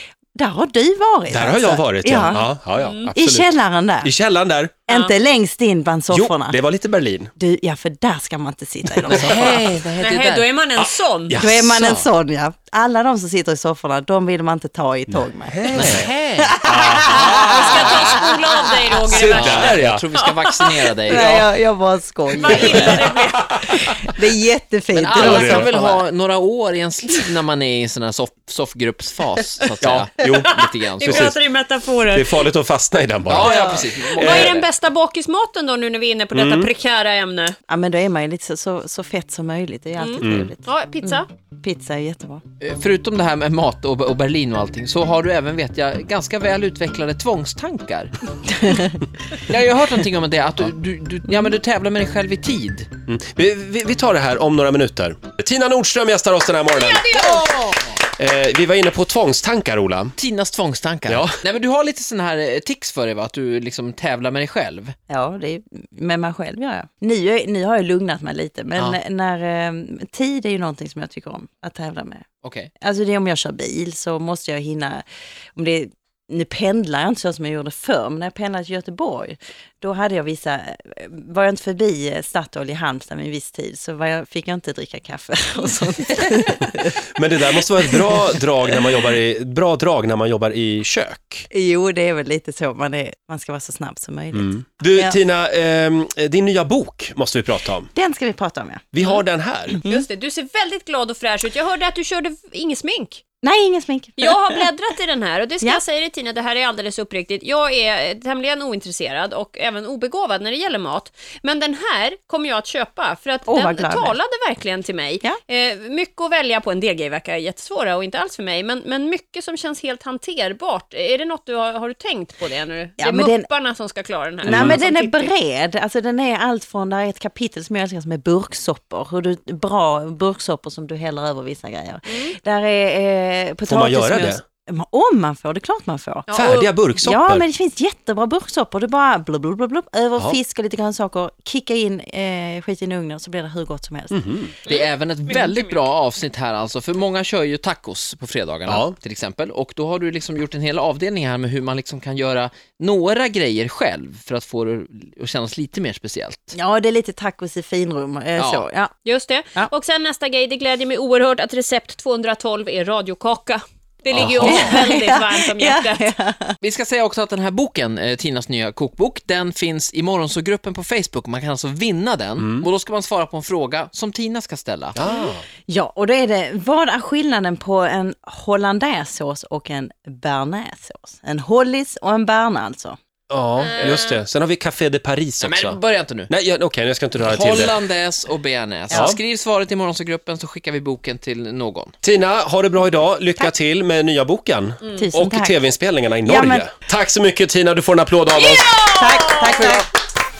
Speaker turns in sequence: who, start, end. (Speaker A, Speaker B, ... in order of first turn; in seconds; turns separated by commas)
Speaker A: 0.3-2.5, Speaker B: 1.3-4.8, Speaker C: 2.8-3.1, Speaker A: 3.1-4.1, Speaker A: 4.9-6.6, Speaker B: 6.1-7.3, Speaker A: 7.4-9.6, Speaker B: 9.0-9.7, Speaker D: 9.1-10.5, Speaker C: 9.9-11.4, Speaker B: 10.8-12.0, Speaker A: 11.3-18.4, Speaker B: 15.1-16.1, Speaker D: 15.7-16.5, Speaker B: 16.6-18.0, Speaker C: 17.4-20.8, Speaker B: 19.1-20.0, Speaker D: 19.3-21.5, Speaker A: 21.1-23.1, Speaker C: 22.4-23.5, Speaker D: 22.5-23.0, Speaker B: 22.6-23.8, Speaker A: 23.6-26.0, Speaker D: 24.9-31.3, Speaker B: 25.1-25.7, Speaker B: 29.8-31.4, Speaker C: 30.5-32.5, Speaker B: 32.1-34.5, Speaker D: 33.2-34.7, Speaker C: 33.4-37.5, Speaker B: 36.3-36.7, Speaker A: 37.7-42.4, Speaker C: 40.0-41.3, Speaker B: 40.2-40.5, Speaker D: 42.6-48.1, Speaker A: 48.6-49.0, Speaker D: 49.4-52.9, Speaker B: 53.1-57.3, Speaker C: 56.6-57.5, Speaker D: 57.1-57.9, Speaker B: 58.0-60.1, Speaker D: 60.2-64.9, Speaker B: 61.1-61.4, Speaker A: 65.1-72.2, Speaker D: 72.4-72.7, Speaker A: 72.8-87.0, Speaker B: 87.1-91.5, Speaker A: 87.9-88.3, Speaker A: 91.5-95.2, Speaker B: 94.3-97.9, Speaker A: 97.9-98.9, Speaker B: 98.9-99.8, Speaker C: 99.8-103.2, Speaker A: 103.4-104.5, Speaker C: 104.2-125.3, Speaker A: 113.5-114.2, Speaker A: 123.0-123.5, Speaker A: 124.4-136.3, Speaker B: 124.5-124.8, Speaker C: 132.1-132.3, Speaker B: 133.7-134.4, Speaker C: 136.3-136.7, Speaker B: 136.3-137.4, Speaker A: 136.9-144.2, Speaker B: 144.1-144.5, Speaker C: 144.7-145.8, Speaker D: 144.7-156.5, Speaker B: 148.7-148.9, Speaker A: 156.5-158.9, Speaker D: 158.4-158.7, Speaker C: 159.0-166.1, Speaker D: 164.1-164.8, Speaker A: 164.4-166.6, Speaker D: 166.6-175.0, Speaker B: 172.4-172.7, Speaker B: 174.9-175.4, Speaker A: 175.7-183.0, Speaker B: 183.3-187.8, Speaker C: 183.6-184.2, Speaker D: 185.4-186.3, Speaker D: 187.2-191.9, Speaker B: 188.9-189.2, Speaker B: 192.0-198.8, Speaker A: 194.9-195.6, Speaker A: 196.2-196.7, Speaker C: 198.3-199.5, Speaker A: 198.9-199.8, Speaker D: 199.4-199.8